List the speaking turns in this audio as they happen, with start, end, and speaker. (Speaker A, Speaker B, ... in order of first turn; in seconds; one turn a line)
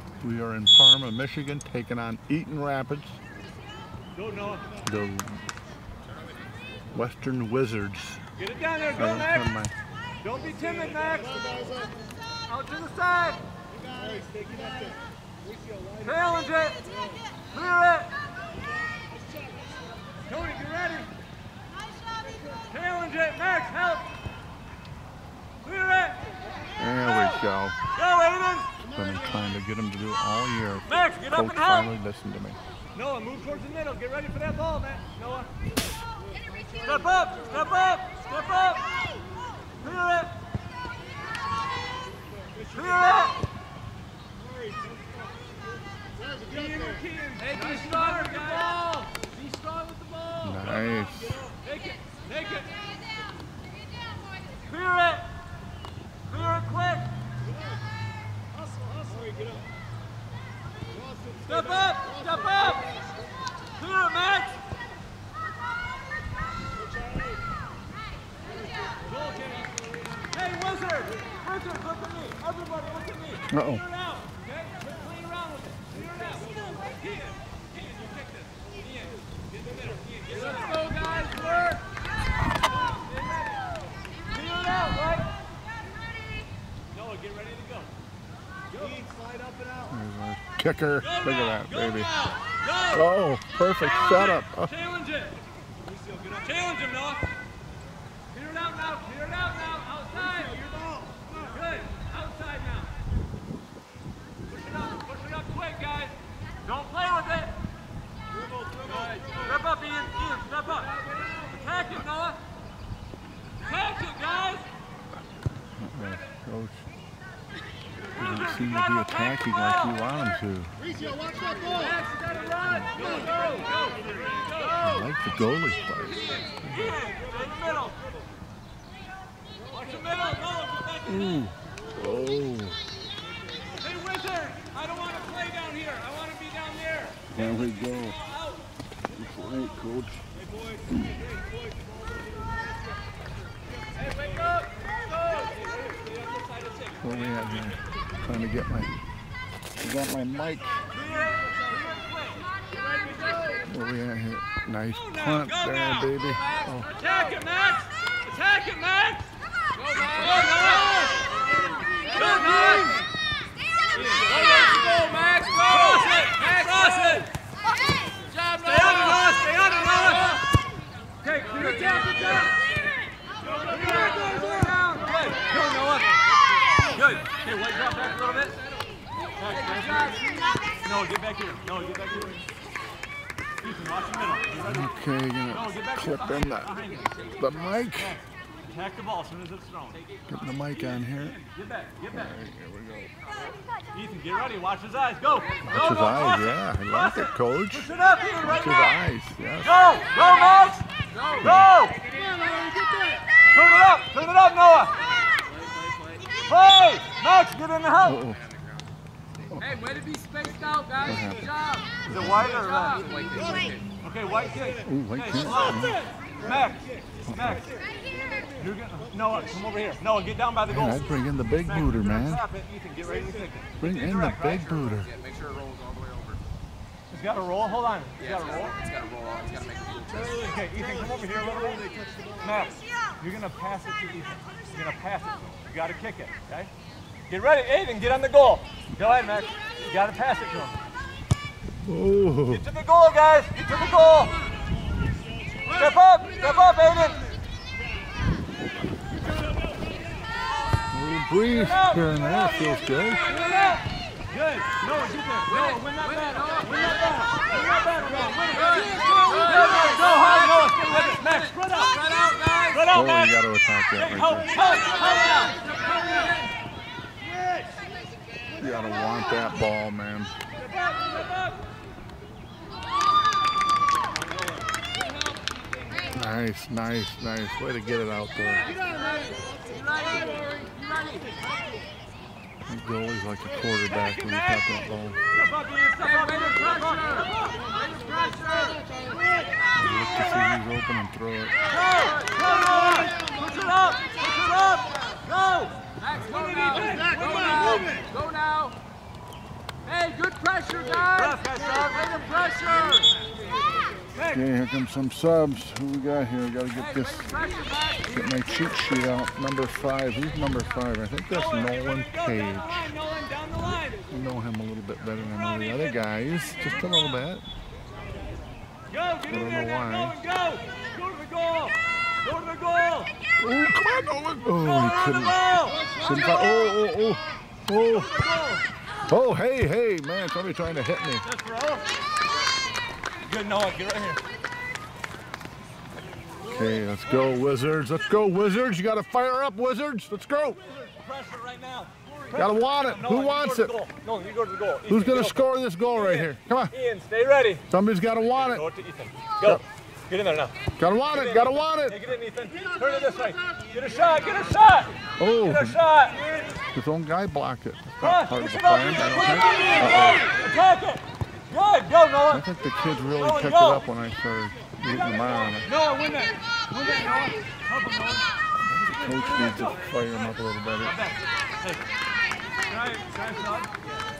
Speaker A: 0.2-3.2
Speaker B: 4.1-4.7
Speaker A: 4.8-5.4
Speaker A: 6.9-8.2
Speaker B: 8.4-9.5
Speaker A: 8.9-9.7
Speaker B: 10.2-11.8
Speaker B: 12.5-13.4
Speaker B: 16.0-16.9
Speaker B: 17.5-18.1
Speaker B: 20.2-21.1
Speaker B: 22.5-24.1
Speaker B: 25.6-26.3
Speaker A: 26.8-27.8
Speaker B: 27.9-28.8
Speaker A: 28.8-32.6
Speaker B: 30.9-31.9
Speaker B: 32.9-35.7
Speaker B: 36.8-38.9
Speaker B: 39.8-40.4
Speaker B: 42.7-43.4
Speaker B: 46.4-52.9
Speaker C: 47.5-48.6
Speaker A: 50.4-51.4
Speaker B: 54.6-55.3
Speaker B: 56.2-57.1
Speaker B: 61.5-62.9
Speaker B: 63.8-64.6
Speaker B: 69.0-81.8
Speaker A: 73.5-73.8
Speaker B: 82.8-83.7
Speaker B: 84.2-85.4
Speaker B: 86.9-87.9
Speaker B: 88.7-89.2
Speaker A: 89.9-92.1
Speaker B: 91.0-93.0
Speaker A: 92.9-94.7
Speaker B: 93.8-95.4
Speaker B: 96.2-97.3
Speaker B: 98.3-103.0
Speaker B: 104.5-107.6
Speaker B: 108.8-112.4
Speaker B: 113.6-114.7
Speaker A: 115.8-116.8
Speaker A: 118.2-120.7
Speaker B: 118.3-118.7
Speaker B: 121.6-124.1
Speaker A: 124.8-127.0
Speaker B: 126.6-128.0
Speaker B: 129.7-131.4
Speaker A: 131.0-132.8
Speaker B: 133.8-137.4
Speaker A: 137.3-138.2
Speaker B: 138.2-138.5
Speaker A: 139.1-140.2
Speaker B: 143.9-147.3
Speaker A: 147.0-148.9
Speaker A: 149.8-150.9
Speaker B: 151.1-153.6
Speaker A: 153.7-156.9
Speaker B: 155.0-159.2
Speaker C: 159.8-161.0
Speaker B: 160.2-161.2
Speaker B: 162.1-163.1
Speaker C: 162.3-162.6
Speaker B: 163.9-165.1
Speaker C: 164.4-166.2
Speaker B: 165.6-167.3
Speaker C: 168.3-169.2
Speaker B: 168.6-170.4
Speaker B: 171.2-172.6
Speaker B: 173.6-176.2
Speaker B: 176.9-178.6
Speaker B: 179.4-182.4
Speaker B: 183.6-184.9
Speaker A: 184.6-186.8
Speaker B: 185.5-187.3
Speaker A: 187.4-188.2
Speaker B: 187.9-192.3
Speaker A: 190.3-191.4
Speaker A: 192.1-193.1
Speaker B: 193.9-199.0
Speaker A: 195.6-200.0
Speaker B: 199.6-202.1
Speaker C: 201.1-201.4
Speaker A: 201.4-201.8
Speaker B: 203.3-205.0
Speaker B: 206.4-208.2
Speaker A: 208.0-208.4
Speaker C: 208.3-208.7
Speaker A: 209.5-209.9
Speaker C: 209.7-211.1
Speaker A: 211.0-212.5
Speaker B: 212.1-213.1
Speaker C: 212.3-213.9
Speaker B: 214.0-217.7
Speaker A: 214.8-216.0
Speaker A: 217.3-217.7
Speaker B: 218.5-221.0
Speaker A: 220.7-222.4
Speaker B: 221.6-224.7
Speaker A: 223.8-225.1
Speaker C: 224.4-226.4
Speaker B: 227.1-228.7
Speaker C: 228.2-230.5
Speaker B: 230.3-236.7
Speaker B: 237.3-240.8
Speaker A: 241.8-242.7
Speaker B: 242.5-244.4
Speaker B: 245.7-247.2
Speaker A: 250.9-253.4
Speaker B: 251.6-263.4
Speaker C: 255.7-256.7
Speaker C: 258.6-260.7
Speaker C: 261.7-262.8
Speaker A: 262.9-264.6
Speaker B: 263.9-266.2
Speaker A: 268.6-270.3
Speaker B: 270.6-271.6
Speaker A: 276.1-278.7
Speaker B: 278.7-281.3
Speaker A: 282.7-285.2
Speaker B: 285.3-288.9
Speaker C: 286.4-286.9
Speaker A: 289.7-291.6
Speaker B: 291.7-298.1
Speaker C: 296.3-298.8
Speaker C: 299.9-301.2
Speaker B: 301.1-303.1
Speaker B: 304.1-304.4
Speaker A: 304.3-312.9
Speaker B: 311.3-314.0
Speaker A: 314.1-317.4
Speaker B: 318.9-323.1
Speaker A: 319.3-320.2
Speaker A: 323.4-325.4
Speaker B: 324.6-325.9
Speaker A: 326.0-328.2
Speaker B: 327.9-328.7
Speaker A: 329.1-331.2
Speaker B: 331.2-332.0
Speaker B: 333.2-334.2
Speaker A: 336.4-340.6
Speaker B: 340.5-347.6
Speaker A: 342.3-343.8
Speaker A: 344.9-346.7
Speaker A: 347.7-348.7
Speaker B: 348.3-356.3
Speaker A: 350.8-352.0
Speaker A: 355.2-355.8
Speaker A: 356.7-360.3
Speaker B: 358.0-362.4
Speaker A: 362.3-365.7
Speaker B: 363.1-363.9
Speaker B: 365.5-368.3
Speaker A: 368.6-371.0
Speaker B: 368.9-370.3
Speaker B: 370.8-371.9
Speaker B: 372.6-373.8